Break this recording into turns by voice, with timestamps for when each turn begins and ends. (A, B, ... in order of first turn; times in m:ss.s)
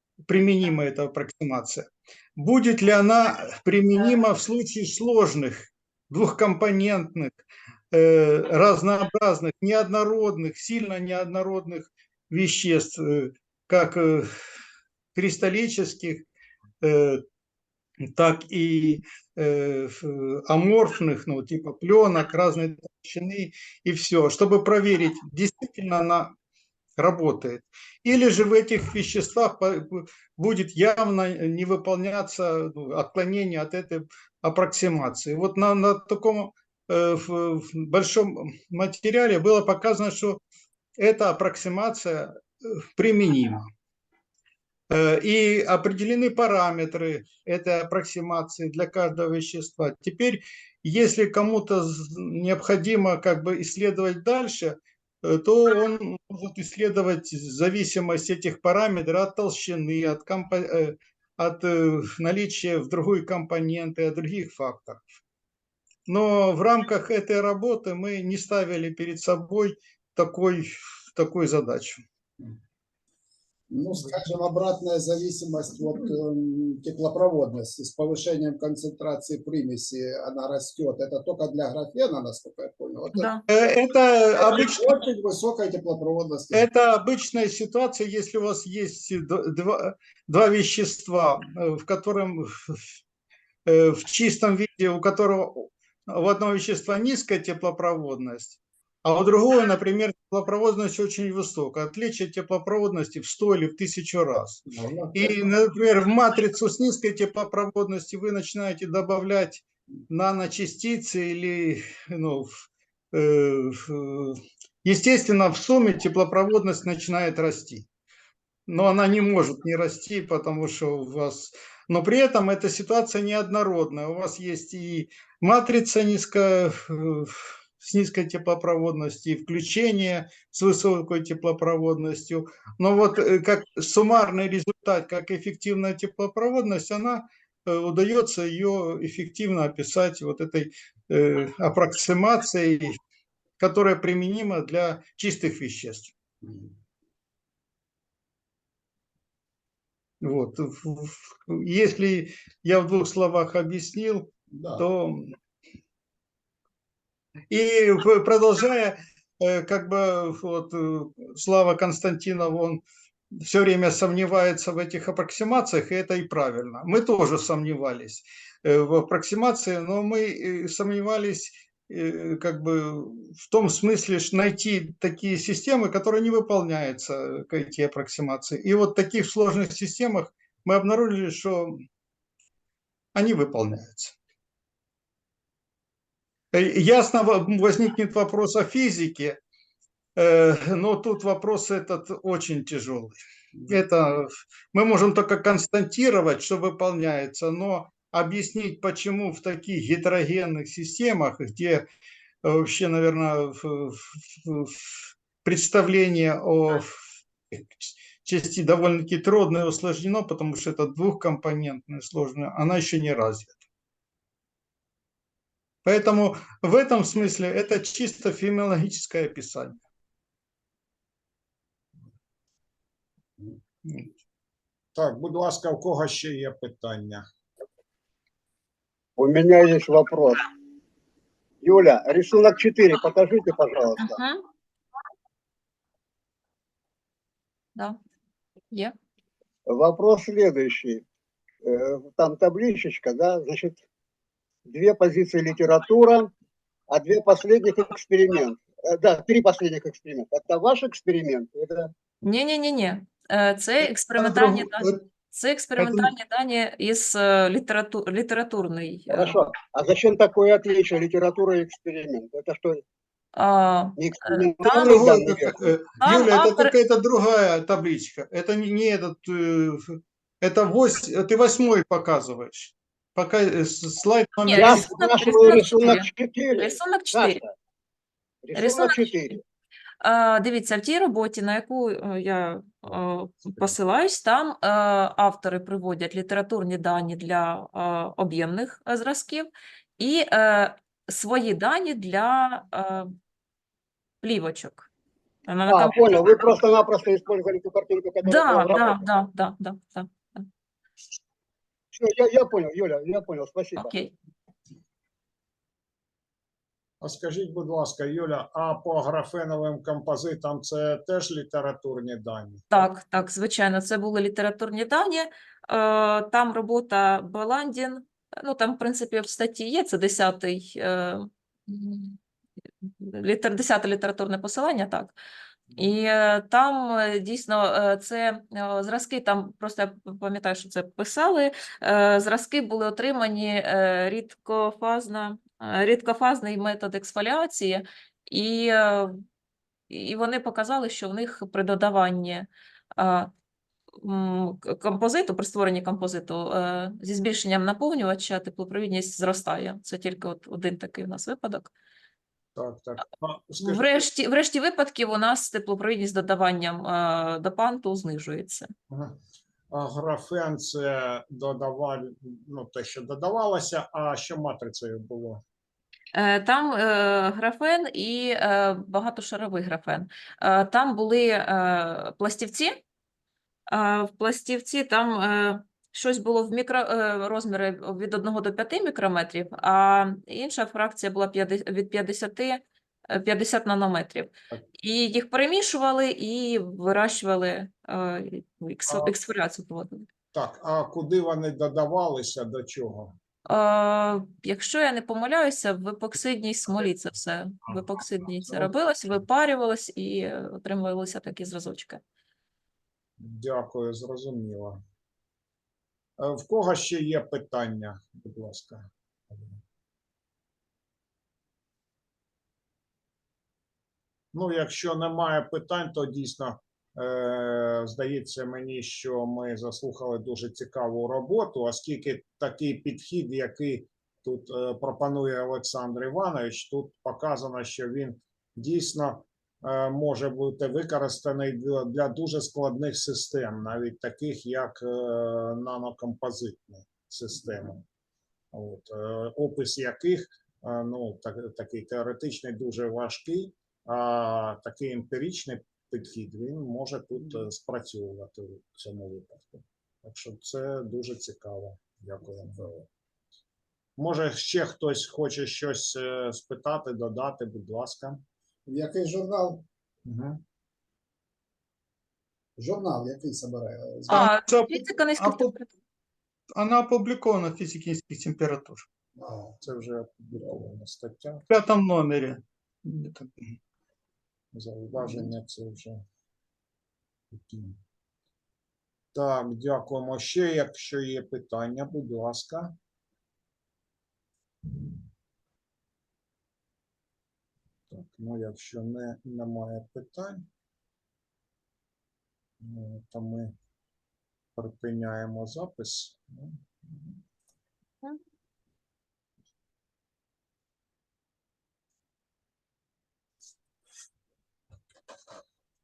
0:00.3-0:14.3 A
0:15.2-0:16.3 A
0:16.8-0:17.2 A
0:18.1-0:26.3 A
0:27.0-0:40.4 A
0:41.0-0:43.7 A
0:44.9-1:05.0 A
1:06.1-1:12.0 A
1:13.7-1:23.3 B
1:23.2-1:23.4 C
1:23.5-1:25.0 A
1:24.4-1:26.7 B
1:26.5-1:32.8 A
1:33.7-1:57.9 A
1:44.7-1:45.5 B
1:58.7-2:23.0 A
2:23.6-2:26.1 A
2:26.4-2:26.7 B
2:30.2-2:35.4 A
2:34.5-2:34.8 B
2:37.5-3:01.8 A
3:03.2-3:04.2 A
3:06.5-3:09.4 A
3:10.2-3:21.9 A
3:22.4-3:33.6 A
3:35.8-3:39.8 A
3:45.0-3:47.2 D
3:49.2-3:50.5 E
3:51.6-3:54.2 E
3:54.0-3:54.4 C
3:59.7-4:01.0 E
4:01.6-4:03.8 E
4:04.7-4:06.3 E
4:06.9-4:11.9 E
4:12.2-4:19.4 C
4:14.1-4:15.0 A
4:15.8-4:16.1 A
4:19.1-4:22.8 E
4:23.4-4:25.0 C
4:24.0-4:25.7 E
4:24.6-4:35.9 A
4:26.0-4:26.7 C
4:34.5-4:37.4 C
4:34.5-4:37.5 E
4:38.4-4:39.4 E
4:38.5-4:39.4 C
4:40.0-4:53.1 C
4:54.2-4:54.9 C
4:55.5-4:56.2 C
4:55.7-4:59.1 E
4:58.2-5:00.5 C
5:01.9-5:03.9 E
5:03.8-5:04.1 C
5:07.0-5:12.9 D
5:12.7-5:22.2 C
5:22.8-5:25.2 C
5:25.8-5:39.2 C
5:39.9-5:43.3 C
5:44.0-5:51.7 C
5:52.6-5:54.0 D
5:53.6-5:58.7 C
5:58.9-5:59.2 D
5:59.7-6:05.4 D
6:06.2-6:12.8 C
6:13.7-6:30.1 C
6:30.3-6:33.2 D
6:33.5-6:42.0 C
6:43.2-6:44.8 D
6:46.2-6:49.6 D
6:54.3-7:17.8 D
7:18.5-7:32.9 D
7:34.0-7:38.2 D
7:38.7-7:39.6 B
7:40.0-7:40.4 D
7:42.6-7:44.3 B
7:44.1-7:45.7 C
7:44.1-7:45.5 A
7:46.6-7:48.9 A
7:49.2-7:49.6 B
7:49.6-7:51.4 D
7:51.5-7:53.6 A
7:54.5-7:56.0 D
7:57.3-7:57.8 D
7:59.1-8:02.8 D
8:07.9-8:10.5 D
8:12.6-8:13.5 D
8:14.6-8:17.2 D